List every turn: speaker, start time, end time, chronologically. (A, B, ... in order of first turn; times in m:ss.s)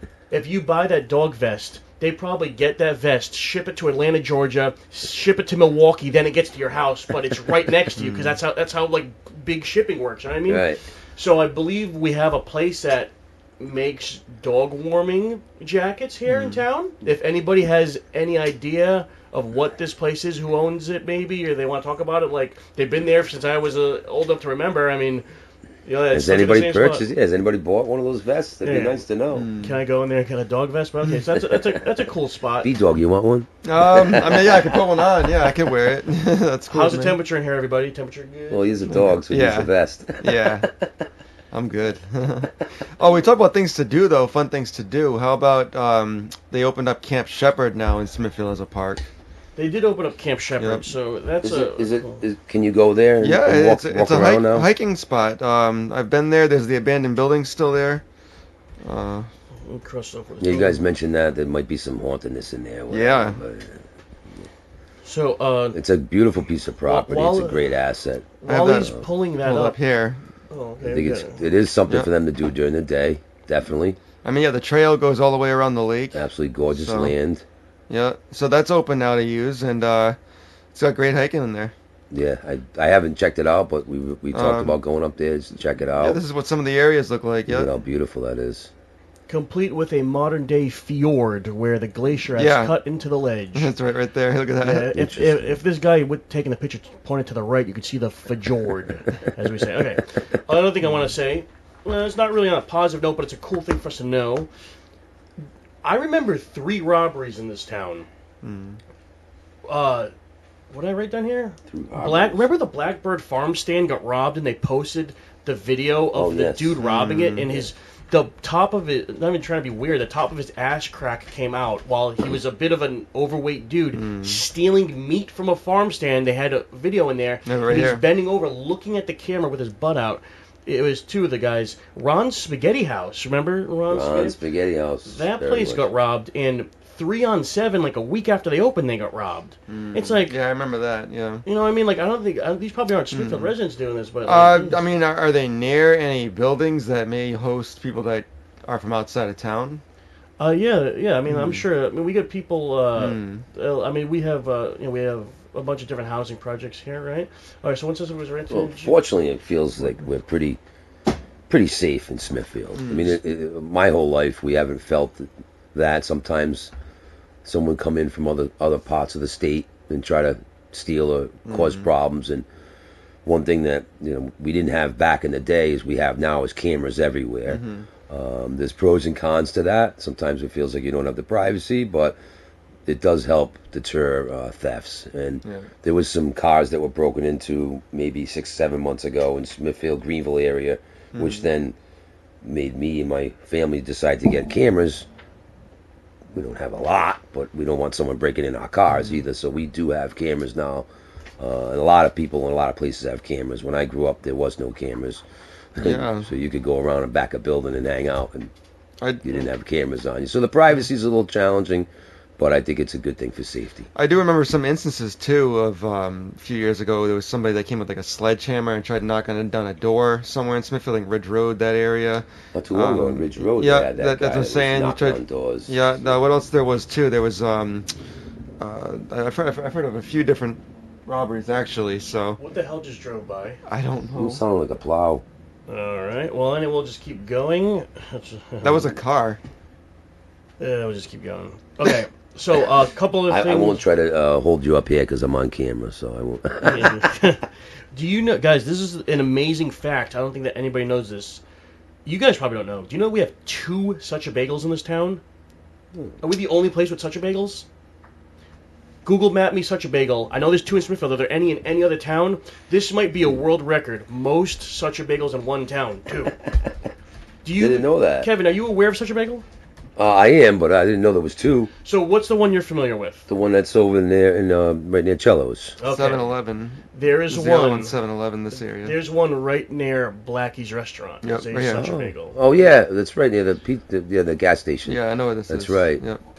0:00.3-0:25.2 A
0:08.0-0:08.4 B
0:10.5-0:10.8 C
0:16.3-0:16.6 C
0:25.8-0:27.0 A
0:26.1-0:29.5 C
0:28.6-0:29.0 A
0:29.3-0:29.8 B
0:29.6-0:32.7 A
0:32.6-0:34.9 C
0:33.6-0:37.2 B
0:36.7-0:39.1 A
0:38.5-0:40.9 C
0:38.9-0:40.7 B
0:41.5-0:49.0 B
0:49.6-0:52.2 A
0:50.6-0:50.9 B
0:51.4-0:54.7 C
0:53.2-0:58.0 B
0:58.8-0:59.3 B
0:59.6-1:00.8 A
1:00.4-1:03.8 C
1:02.9-1:03.4 B
1:05.0-1:05.8 A
1:05.7-1:09.1 C
1:06.9-1:07.7 A
1:08.4-1:09.8 A
1:08.5-1:10.2 B
1:10.5-1:11.4 A
1:10.8-1:14.0 C
1:14.2-1:17.2 B
1:16.1-1:17.4 C
1:17.9-1:20.2 B
1:20.7-1:21.7 B
1:22.1-1:26.2 C
1:24.3-1:24.8 B
1:25.9-1:27.7 B
1:27.5-1:28.7 C
1:29.3-1:33.7 A
1:32.4-1:32.8 B
1:33.6-1:34.9 B
1:34.6-1:44.5 A
1:34.9-1:35.6 C
1:45.8-1:48.1 A
1:48.4-1:48.8 B
1:49.7-1:50.1 A
1:50.7-2:14.4 A
1:51.7-1:52.5 C
1:56.1-1:56.8 C
1:56.8-1:57.5 B
2:03.9-2:04.4 B
2:07.4-2:08.1 B
2:13.9-2:15.9 C
2:15.1-2:20.4 A
2:19.7-2:21.4 B
2:21.4-2:24.8 A
2:23.1-2:23.5 B
2:24.2-2:29.8 B
2:30.4-2:39.0 A
2:31.3-2:31.6 B
2:33.0-2:33.4 B
2:38.5-2:40.6 C
2:41.5-2:46.7 C
2:42.8-2:43.2 B
2:47.4-2:52.5 C
2:51.5-2:51.9 B
2:53.2-3:02.2 C
2:57.5-2:57.9 B
3:02.9-3:11.8 C
3:05.4-3:05.7 B
3:11.1-3:11.4 B
3:12.4-3:15.1 C
3:16.3-3:20.9 C
3:21.4-3:25.2 C
3:25.8-3:28.5 C
3:25.8-3:26.3 B
3:29.0-3:29.4 B
3:29.2-3:33.9 C
3:33.9-3:47.9 B
3:42.5-3:45.7 C
3:48.6-3:52.4 B
3:52.4-3:53.6 A
3:53.7-3:54.4 B
3:54.2-3:55.2 C
3:55.7-3:59.0 A
3:58.6-3:59.4 B
4:00.6-4:03.8 A
4:03.3-4:07.1 C
4:06.6-4:11.4 A
4:12.0-4:15.2 A
4:16.2-4:17.7 A
4:19.0-4:26.4 A
4:27.4-4:29.4 A
4:27.6-4:28.3 C
4:30.0-4:31.7 C
4:31.8-4:33.3 A
4:33.3-4:35.8 C
4:35.8-4:36.4 A
4:35.8-4:39.0 B
4:36.9-4:38.0 A
4:38.8-4:42.4 A
4:41.2-4:41.9 B
4:41.8-4:46.0 C
4:44.9-4:46.2 B